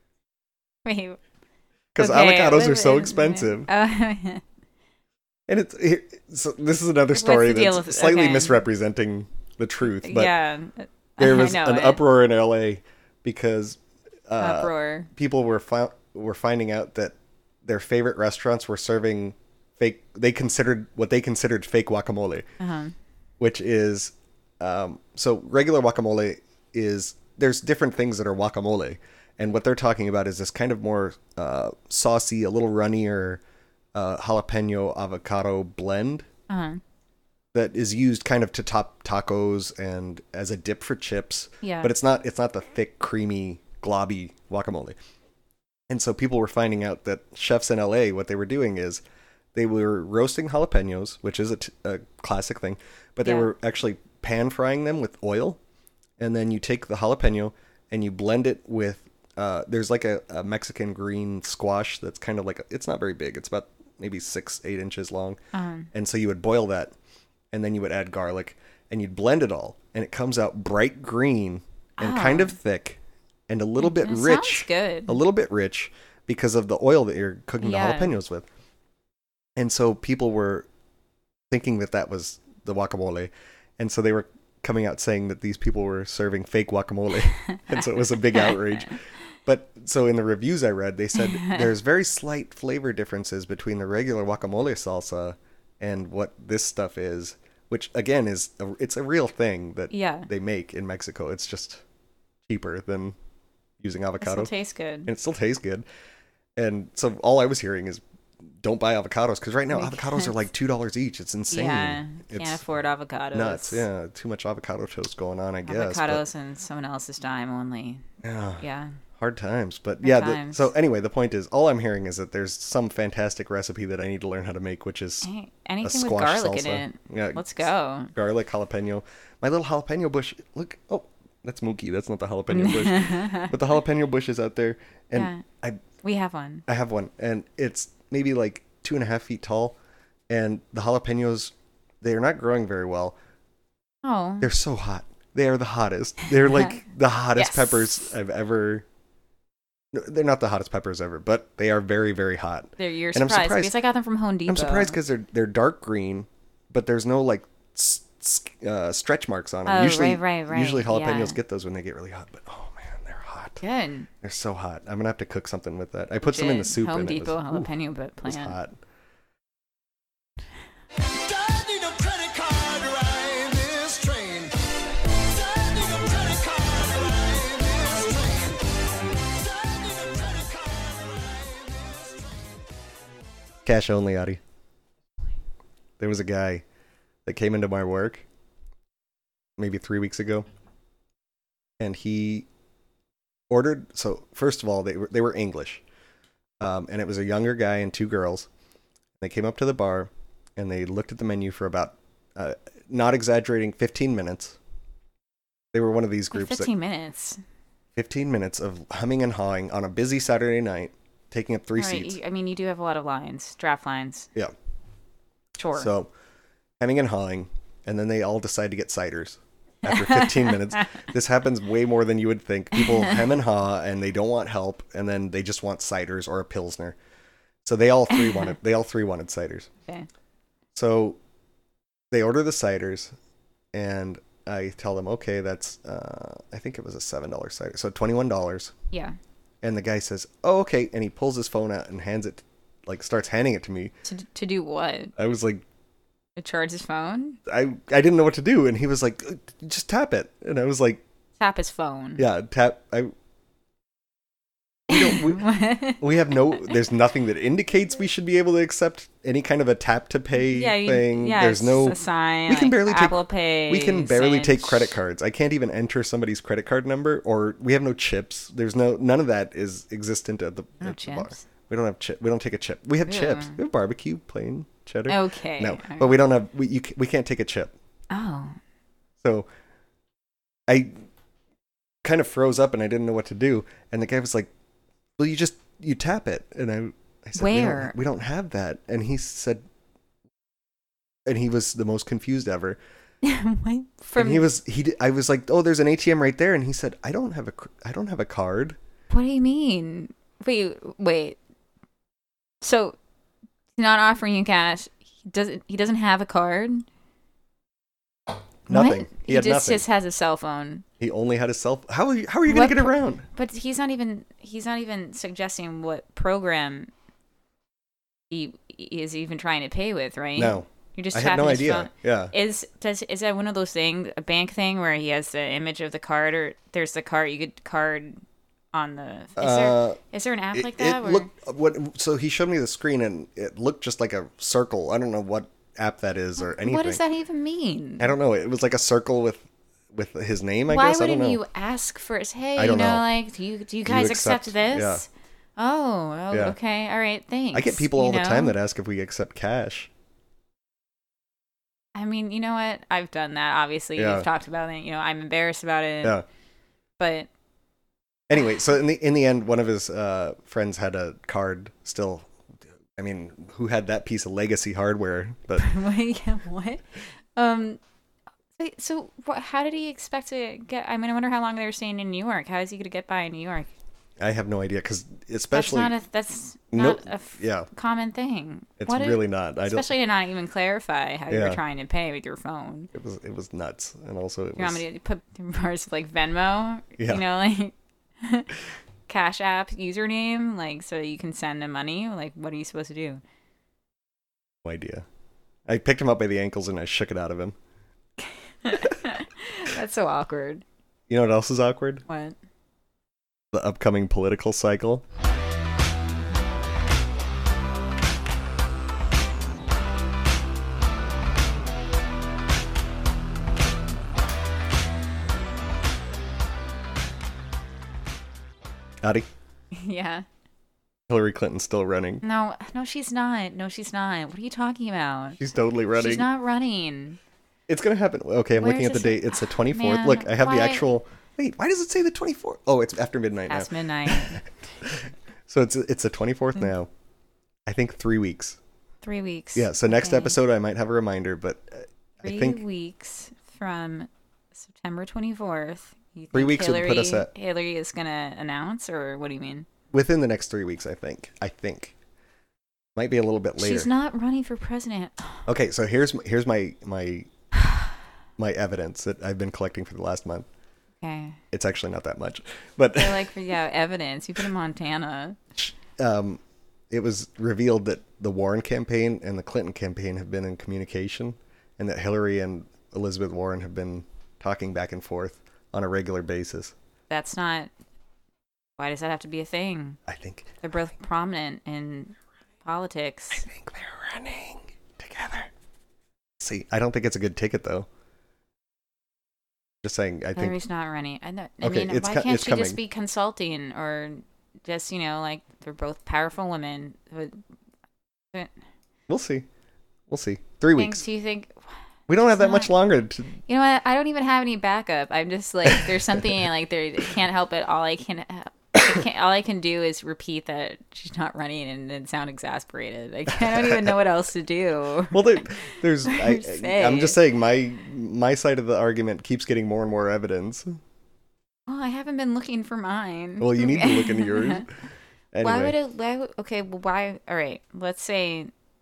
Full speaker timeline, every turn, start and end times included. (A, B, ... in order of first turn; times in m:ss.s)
0:00.8-0:01.2 A
0:01.9-0:03.7 B
0:02.0-0:04.4 A
0:05.5-0:10.3 B
0:07.1-0:08.6 A
0:09.9-0:12.0 A
0:11.2-0:22.5 B
0:14.4-0:15.1 A
0:22.6-0:22.9 A
0:23.4-0:33.4 B
0:33.9-0:36.2 B
0:36.5-0:36.8 A
0:37.5-0:45.0 B
0:41.6-0:41.9 A
0:45.9-0:49.0 B
0:49.5-0:55.6 B
0:56.2-1:05.4 B
1:05.5-1:05.9 A
1:05.9-1:06.9 B
1:07.5-1:18.5 B
1:12.0-1:12.6 A
1:13.8-1:15.2 A
1:17.6-1:18.1 A
1:19.6-1:20.7 B
1:21.5-1:41.8 B
1:28.3-1:28.6 A
1:31.2-1:31.7 A
1:39.9-1:40.3 A
1:42.4-1:43.1 B
1:43.8-1:44.5 B
1:44.2-1:45.1 A
1:45.0-1:45.8 B
1:46.6-1:48.0 B
1:48.6-1:52.6 B
1:49.7-1:50.4 A
1:51.5-1:53.8 A
1:53.3-1:56.2 B
1:55.6-1:58.0 A
1:58.2-1:58.6 B
1:58.6-1:59.0 A
1:59.2-2:05.3 B
2:00.0-2:00.7 A
2:05.2-2:08.1 A
2:05.8-2:07.6 B
2:08.1-2:15.8 B
2:12.5-2:13.5 A
2:15.1-2:15.4 A
2:16.0-2:16.6 A
2:16.6-2:19.8 B
2:20.3-2:23.2 B
2:24.0-2:24.5 A
2:24.4-2:28.8 B
2:27.4-2:28.0 A
2:29.9-2:33.7 B
2:32.8-2:35.0 A
2:34.5-2:43.6 B
2:39.6-2:41.4 A
2:43.6-2:44.1 A
2:44.2-2:47.7 B
2:46.2-2:48.6 A
2:48.2-2:48.8 B
2:51.1-3:02.6 C
3:03.6-3:04.4 B
3:06.0-3:06.6 B
3:07.2-3:08.2 B
3:09.6-3:10.5 B
3:11.8-3:12.5 B
3:13.5-3:15.8 B
3:16.6-3:18.5 B
3:19.2-3:24.6 B
3:25.7-3:26.7 B
3:26.3-3:27.4 A
3:28.0-3:32.2 B
3:31.8-3:34.3 A
3:35.6-3:35.9 A
3:35.7-3:36.1 B
3:36.8-3:47.0 B
3:39.9-3:40.8 A
3:47.6-3:49.7 B
3:48.1-3:48.5 A
3:50.7-3:51.2 B
3:52.1-3:53.1 B
3:53.7-3:58.7 B
3:58.9-3:59.2 A
3:59.6-4:03.9 B
4:04.0-4:05.1 A
4:05.2-4:05.6 B
4:06.4-4:07.4 A
4:07.5-4:11.0 B
4:11.4-4:12.2 A
4:12.2-4:13.1 B
4:14.9-4:37.7 B
4:14.9-4:16.0 A
4:20.4-4:25.0 A
4:30.8-4:31.4 A
4:33.0-4:33.6 A
4:35.1-4:36.1 A
4:38.1-4:38.6 A
4:39.2-4:39.5 B
4:40.7-4:41.0 B
4:42.0-4:44.5 B
4:45.2-4:49.6 B
4:47.4-4:48.0 A
4:51.2-4:52.8 B
4:53.2-4:54.5 A
4:54.2-4:58.8 B
4:59.1-5:01.4 A
5:02.6-5:03.0 A
5:03.7-5:06.8 A
5:08.7-5:09.8 B
5:08.7-5:10.8 A
5:11.0-5:13.2 B
5:12.5-5:16.9 A
5:18.3-5:28.2 A
5:20.4-5:22.3 B
5:28.7-5:31.3 A
5:29.4-5:30.0 B
5:30.5-5:37.0 B
5:36.4-5:38.1 A
5:38.0-5:41.4 B
5:40.7-5:48.6 A
5:42.6-5:43.0 B
5:43.8-5:45.0 B
5:46.3-5:46.6 B
5:47.5-5:49.9 B
5:51.9-5:56.2 A
5:54.0-5:54.3 B
5:57.0-5:57.3 A
5:58.3-6:02.3 B
6:03.0-6:05.7 B
6:05.6-6:06.8 A
6:07.3-6:07.8 A
6:08.6-6:13.7 A
6:14.2-6:15.9 B
6:15.5-6:22.9 A
6:16.7-6:17.7 B
6:18.8-6:19.9 B
6:21.3-6:21.6 B
6:22.9-6:24.8 B
6:24.6-6:28.5 A
6:27.0-6:27.2 B
6:29.1-6:33.2 A
6:34.6-6:35.0 B
6:35.7-6:37.5 B
6:38.2-6:40.6 A
6:41.1-6:42.0 B
6:42.1-6:42.4 A
6:43.5-6:45.0 B
6:59.7-7:00.2 A
7:01.1-7:02.2 B
7:02.2-7:05.4 A
7:05.4-7:06.2 B
7:05.9-7:07.2 A
7:07.7-7:16.9 B
7:08.6-7:10.8 A
7:13.5-7:14.4 A
7:17.7-7:18.6 B
7:19.0-7:20.4 A
7:19.5-7:22.6 B
7:22.2-7:29.7 A
7:26.3-7:27.3 B
7:29.9-7:31.9 B
7:33.0-7:33.9 B
7:33.6-7:35.4 A
7:35.4-7:37.3 B
7:38.4-7:40.5 B
7:41.0-7:41.4 A
7:41.5-7:43.3 B
7:43.0-7:45.4 A
7:45.6-7:56.7 B
7:57.1-7:57.7 A
7:58.8-8:00.0 A
8:00.0-8:00.5 B
8:00.6-8:03.5 A
8:03.3-8:05.5 B
8:06.4-8:07.9 B
8:09.8-8:10.6 B
8:10.3-8:17.4 A
8:11.6-8:12.8 B
8:19.1-8:19.4 B
8:20.1-8:21.0 B
8:20.8-8:21.7 A
8:22.1-8:23.4 B
8:22.3-8:22.7 A
8:23.5-8:35.4 A
8:33.5-8:33.8 B
8:35.1-8:40.8 B
8:36.0-8:37.2 A
8:41.7-8:44.6 A
8:43.4-8:44.7 B
8:45.3-8:45.8 B
8:45.4-8:48.5 A